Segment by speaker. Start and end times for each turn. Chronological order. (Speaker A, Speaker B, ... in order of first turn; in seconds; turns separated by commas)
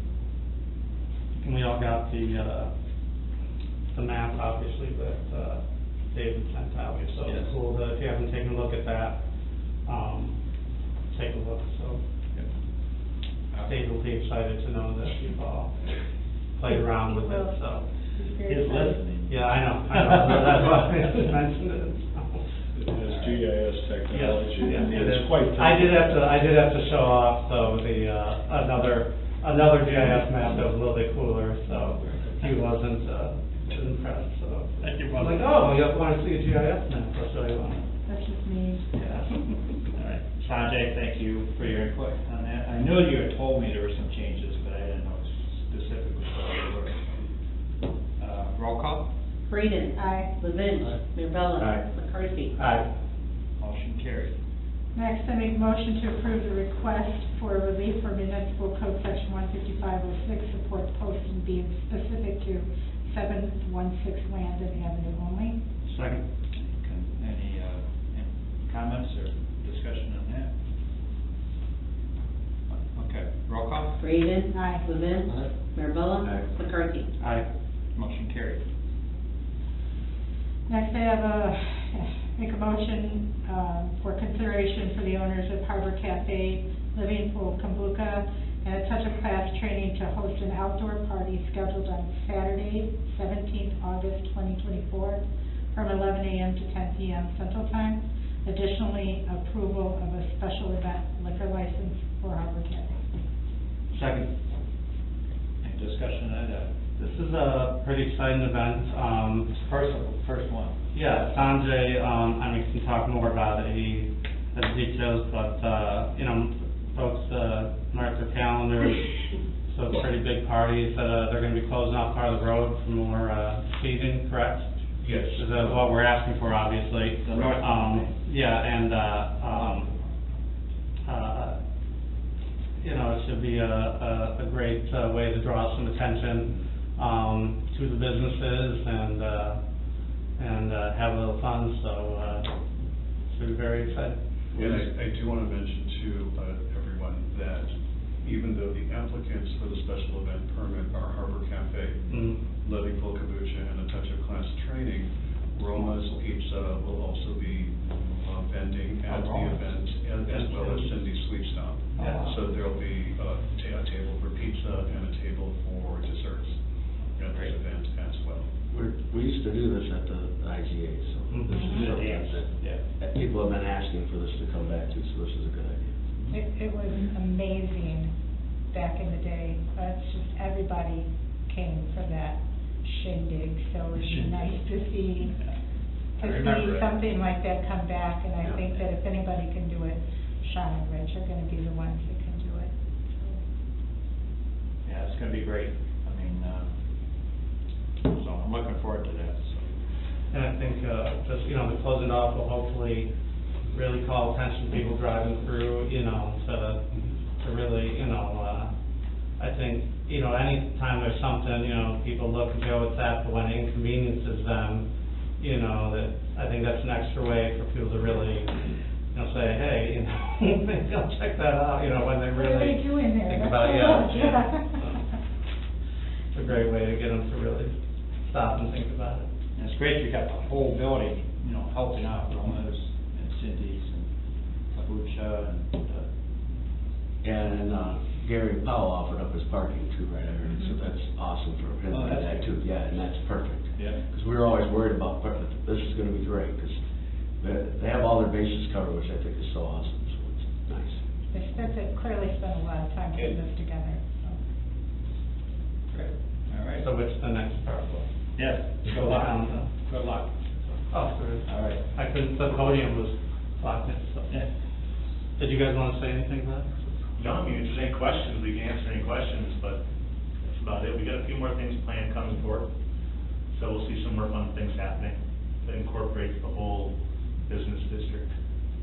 Speaker A: 1.4-2.7, Speaker A: 3.9-9.2, Speaker B: 7.2-7.5, Speaker A: 9.8-10.4, Speaker A: 11.1-12.0, Speaker B: 13.5-13.8, Speaker A: 13.6-16.0, Speaker A: 16.5-17.9, Speaker C: 17.2-17.5, Speaker C: 18.1-18.9, Speaker B: 18.4-20.4, Speaker A: 19.3-22.4, Speaker D: 22.8-26.3, Speaker B: 23.0-23.5, Speaker A: 24.1-37.9, Speaker B: 34.8-35.6, Speaker C: 38.0-38.9, Speaker A: 38.9-39.5, Speaker B: 39.9-47.3, Speaker B: 48.2-49.1, Speaker E: 49.5-52.5, Speaker C: 50.0-50.4, Speaker A: 52.6-52.8, Speaker B: 53.6-54.3, Speaker C: 54.9-65.6, Speaker B: 65.9-70.5, Speaker B: 72.7-74.0, Speaker E: 74.0-77.1, Speaker C: 74.5-74.9, Speaker F: 76.2-76.5, Speaker A: 77.2-77.5, Speaker B: 78.0-78.6, Speaker C: 80.7-103.0, Speaker A: 103.9-104.3, Speaker B: 105.6-106.7, Speaker A: 107.0-109.5, Speaker B: 109.5-110.8, Speaker A: 110.9-119.1, Speaker A: 119.7-124.7, Speaker G: 125.0-125.8, Speaker A: 125.3-129.9, Speaker B: 127.2-128.1, Speaker B: 129.5-130.0, Speaker A: 131.1-131.6, Speaker A: 132.8-139.6, Speaker A: 140.3-142.5, Speaker A: 143.3-144.8, Speaker G: 144.6-166.6, Speaker A: 152.1-152.4, Speaker B: 159.1-159.7, Speaker A: 160.3-161.0, Speaker B: 162.0-162.3, Speaker A: 162.0-162.3, Speaker G: 167.1-168.5, Speaker B: 167.3-167.6, Speaker F: 168.7-175.9, Speaker A: 171.3-171.8, Speaker B: 171.5-172.8, Speaker C: 176.3-178.1, Speaker C: 178.7-185.4, Speaker B: 184.0-184.5, Speaker B: 185.2-185.6, Speaker C: 186.2-193.4, Speaker B: 194.8-196.7, Speaker B: 198.0-199.7, Speaker A: 200.3-203.1, Speaker A: 203.7-208.7, Speaker A: 209.3-214.9, Speaker A: 215.4-225.2, Speaker C: 222.3-225.0, Speaker A: 226.3-229.3, Speaker B: 229.6-234.1, Speaker B: 234.7-236.1, Speaker F: 237.2-246.8, Speaker C: 240.5-240.7, Speaker B: 241.9-242.6, Speaker B: 243.8-244.0, Speaker F: 247.4-251.0, Speaker C: 251.3-254.4, Speaker B: 255.9-256.9, Speaker A: 256.8-258.1, Speaker B: 258.4-260.7, Speaker A: 258.9-259.7, Speaker A: 260.9-264.5, Speaker B: 261.4-261.8, Speaker A: 265.4-266.7, Speaker H: 267.2-269.8, Speaker H: 270.5-272.7, Speaker H: 273.5-276.9, Speaker H: 277.5-278.3